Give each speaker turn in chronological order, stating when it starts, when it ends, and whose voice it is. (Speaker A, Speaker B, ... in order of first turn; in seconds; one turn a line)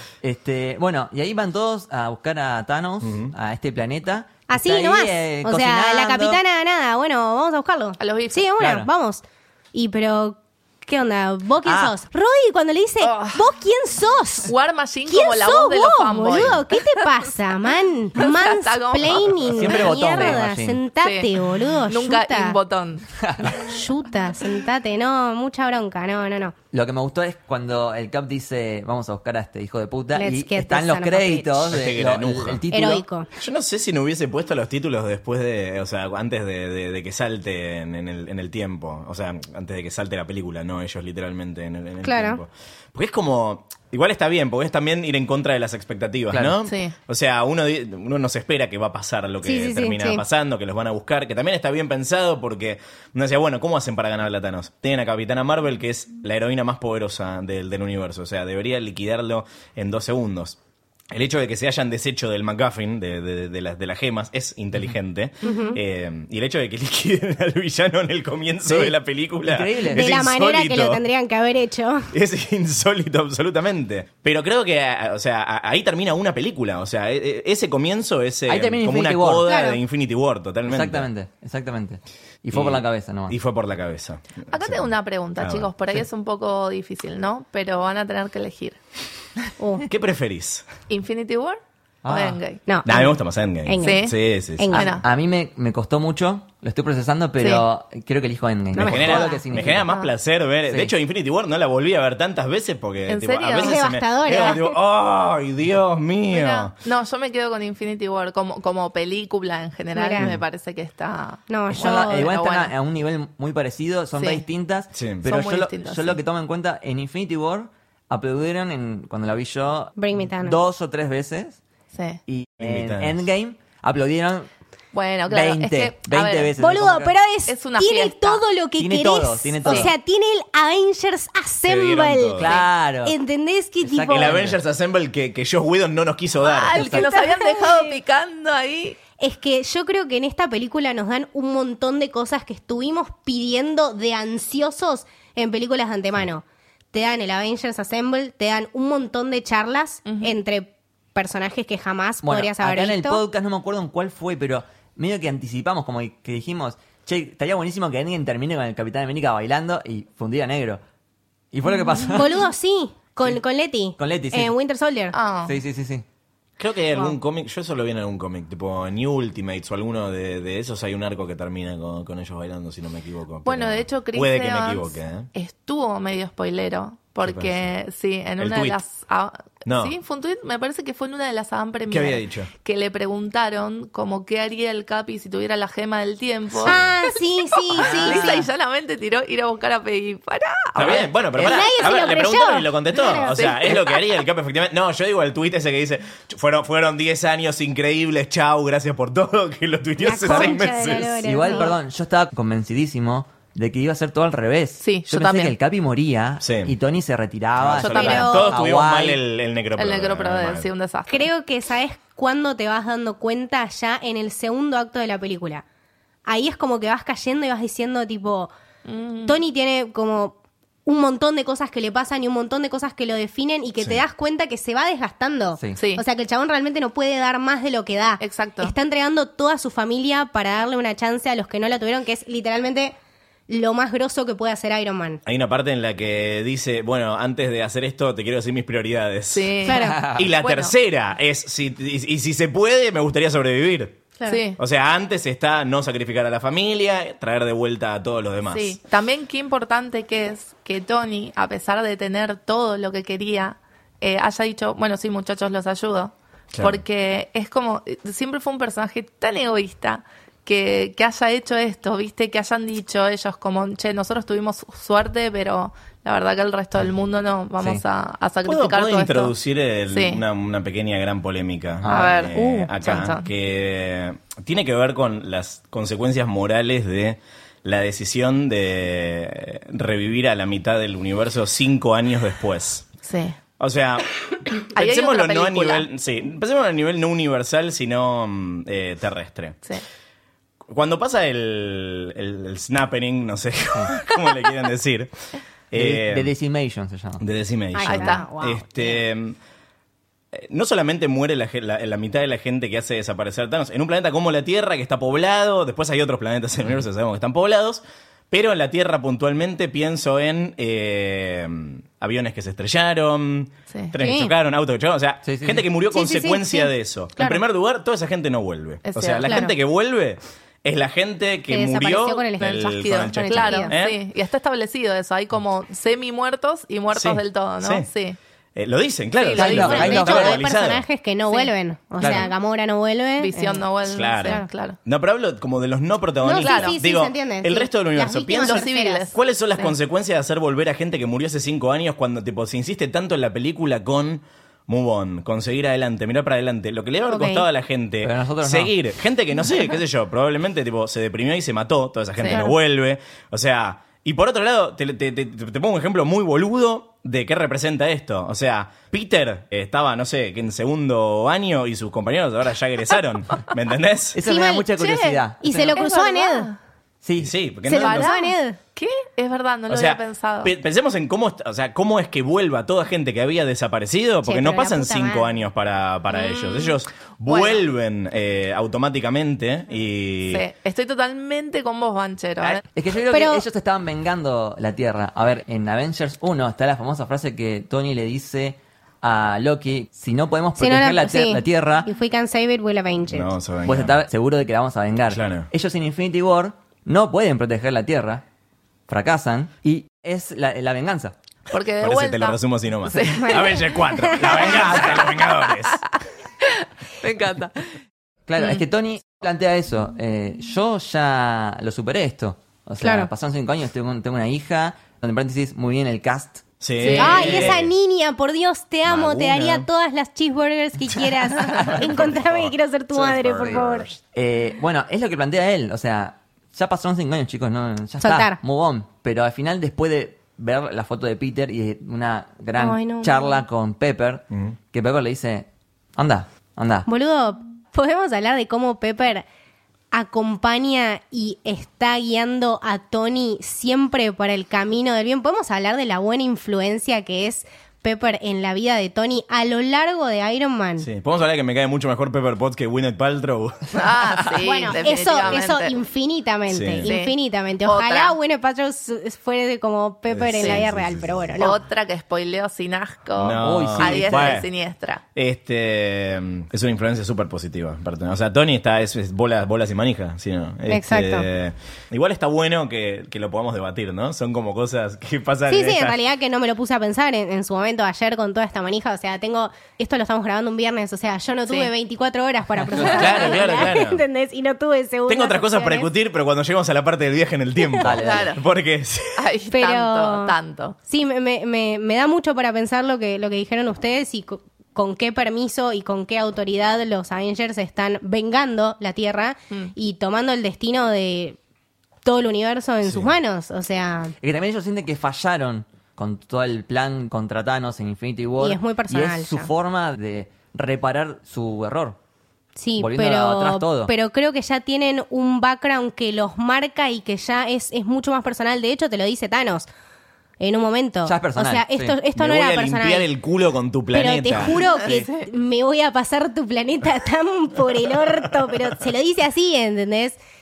Speaker A: 0.2-6.4
Speaker B: 3.0-3.3
Speaker C: 4.5-14.5
Speaker D: 8.0-8.4
Speaker A: 8.6-8.9
Speaker A: 11.6-11.9
Speaker D: 13.0-13.5
Speaker D: 14.4-17.0
Speaker C: 15.1-22.6
Speaker D: 18.2-19.9
Speaker A: 19.5-20.8
Speaker D: 21.0-23.1
Speaker A: 23.2-23.7
Speaker C: 23.6-26.5
Speaker A: 26.7-33.0
Speaker C: 30.1-31.7
Speaker B: 31.7-32.6
Speaker C: 32.7-33.3
Speaker B: 33.4-60.6
Speaker C: 42.0-42.4
Speaker D: 46.6-46.9
Speaker C: 49.4-50.2
Speaker B: 61.1-71.0
Speaker C: 65.4-65.8
Speaker A: 68.6-70.1
Speaker C: 69.9-72.1
Speaker B: 72.1-81.1
Speaker A: 78.5-79.5
Speaker C: 79.4-79.8
Speaker A: 80.7-83.4
Speaker B: 82.5-85.7
Speaker D: 84.5-88.8
Speaker C: 89.6-89.8
Speaker B: 89.9-90.6
Speaker D: 90.9-92.6
Speaker A: 92.0-92.4
Speaker C: 92.7-95.0
Speaker B: 92.8-94.7
Speaker D: 93.8-94.1
Speaker D: 94.7-95.0
Speaker A: 94.8-99.9
Speaker C: 98.7-99.4
Speaker B: 98.8-106.7
Speaker A: 100.7-100.9
Speaker D: 103.1-104.6
Speaker C: 103.5-104.7
Speaker D: 106.3-112.7
Speaker C: 109.9-110.3
Speaker C: 111.5-112.4
Speaker A: 111.7-121.6
Speaker D: 114.2-114.4
Speaker B: 114.9-115.2
Speaker D: 115.2-116.2
Speaker C: 120.0-120.6
Speaker D: 121.9-122.2
Speaker A: 122.3-124.5
Speaker B: 122.6-123.2
Speaker D: 124.9-126.5
Speaker A: 125.3-127.1
Speaker C: 126.6-134.4
Speaker D: 127.5-128.4
Speaker A: 128.8-129.9
Speaker B: 131.6-132.5
Speaker A: 132.4-133.2
Speaker A: 133.8-134.6
Speaker B: 134.1-136.9
Speaker D: 136.4-139.0
Speaker C: 136.8-137.9
Speaker C: 139.2-153.2
Speaker D: 150.1-150.3
Speaker A: 152.2-160.8
Speaker A: 161.5-162.3
Speaker C: 162.1-165.2
Speaker A: 164.0-164.5
Speaker D: 165.1-165.6
Speaker A: 165.4-166.0
Speaker B: 166.6-175.3
Speaker D: 173.4-186.9
Speaker B: 177.2-177.7
Speaker B: 178.4-178.8
Speaker B: 179.7-179.9
Speaker B: 181.9-182.5
Speaker B: 186.6-186.9
Speaker C: 186.6-188.5
Speaker D: 187.5-191.6
Speaker A: 187.8-188.3
Speaker B: 190.8-201.3
Speaker A: 190.8-191.1
Speaker C: 191.4-193.8
Speaker D: 193.3-194.0
Speaker C: 200.0-201.8
Speaker A: 201.2-209.2
Speaker D: 204.8-205.5
Speaker B: 206.4-206.7
Speaker B: 207.6-210.7
Speaker D: 207.8-208.5
Speaker C: 208.0-208.6
Speaker D: 209.8-211.3
Speaker C: 211.1-215.6
Speaker C: 216.2-218.5
Speaker D: 218.9-219.4
Speaker C: 219.2-232.9
Speaker D: 225.8-226.0
Speaker D: 228.2-228.7
Speaker C: 233.5-235.2
Speaker B: 235.2-244.0
Speaker D: 239.3-240.7
Speaker C: 239.6-240.0
Speaker A: 239.9-240.2
Speaker D: 244.2-244.6
Speaker B: 244.6-248.8
Speaker D: 248.5-269.3
Speaker B: 256.5-256.8
Speaker B: 268.4-282.9
Speaker D: 269.9-270.2
Speaker A: 271.8-272.3
Speaker D: 271.9-273.3
Speaker D: 283.0-283.4
Speaker B: 283.6-289.6
Speaker D: 284.7-285.9
Speaker B: 290.7-295.1
Speaker B: 295.7-296.3
Speaker A: 295.7-297.2
Speaker B: 297.2-299.4
Speaker C: 297.7-299.0
Speaker D: 297.9-298.2
Speaker B: 300.3-324.0
Speaker C: 314.0-314.3
Speaker A: 315.2-315.6
Speaker C: 315.9-317.4
Speaker D: 318.9-319.5
Speaker C: 319.2-319.5
Speaker C: 321.5-323.7
Speaker D: 322.4-328.2
Speaker B: 326.9-327.9
Speaker B: 328.6-330.8
Speaker D: 329.2-330.4
Speaker A: 329.4-330.3
Speaker C: 329.4-333.6
Speaker A: 332.0-332.3
Speaker D: 333.2-334.8
Speaker B: 333.9-364.2
Speaker C: 336.2-339.1
Speaker D: 336.4-336.8
Speaker D: 338.4-339.7
Speaker C: 347.1-347.4
Speaker A: 348.0-348.7
Speaker D: 352.2-352.4
Speaker A: 364.1-365.8
Speaker C: 364.2-364.7
Speaker D: 364.8-365.2
Speaker C: 365.4-366.5
Speaker D: 365.7-366.6
Speaker A: 367.0-367.3
Speaker B: 367.2-368.1
Speaker C: 367.6-368.6
Speaker D: 367.8-370.5
Speaker B: 369.7-380.4
Speaker C: 374.2-375.2
Speaker D: 376.1-377.6
Speaker D: 380.3-382.6
Speaker A: 382.4-391.9
Speaker C: 383.1-383.4
Speaker C: 390.6-393.3
Speaker B: 393.1-394.0
Speaker A: 393.6-398.2
Speaker B: 395.1-395.5
Speaker A: 398.9-401.1
Speaker D: 401.5-405.8
Speaker B: 401.8-405.9
Speaker C: 403.2-404.5
Speaker D: 406.4-407.6
Speaker A: 408.3-416.4
Speaker C: 412.8-413.1
Speaker B: 416.6-417.7
Speaker D: 416.8-417.5
Speaker A: 416.9-417.5
Speaker C: 416.9-423.9
Speaker B: 418.9-419.6
Speaker B: 421.4-424.0
Speaker A: 424.1-436.9
Speaker C: 428.0-428.4
Speaker C: 432.6-433.2
Speaker C: 436.9-439.2
Speaker C: 439.9-450.9
Speaker B: 450.8-454.3
Speaker D: 453.7-455.7
Speaker C: 454.4-461.6
Speaker B: 456.5-456.9
Speaker D: 456.8-457.1
Speaker D: 457.6-458.1
Speaker B: 460.1-461.2
Speaker D: 461.4-465.0
Speaker B: 463.1-464.5
Speaker A: 463.4-464.4
Speaker B: 465.1-475.9
Speaker C: 470.7-471.2
Speaker C: 475.5-485.9
Speaker B: 482.7-484.0
Speaker B: 485.1-489.3
Speaker C: 487.6-487.8
Speaker A: 487.8-488.3
Speaker D: 488.0-488.4
Speaker D: 489.2-490.8
Speaker C: 489.5-490.4
Speaker C: 490.9-501.4
Speaker C: 502.0-504.1
Speaker B: 502.8-503.1
Speaker A: 504.2-512.0
Speaker C: 508.4-509.5
Speaker C: 512.5-519.7
Speaker A: 512.8-513.9
Speaker C: 520.4-523.1
Speaker A: 521.0-522.0
Speaker B: 522.1-524.6
Speaker C: 523.9-530.2
Speaker D: 524.5-525.3
Speaker A: 524.7-525.0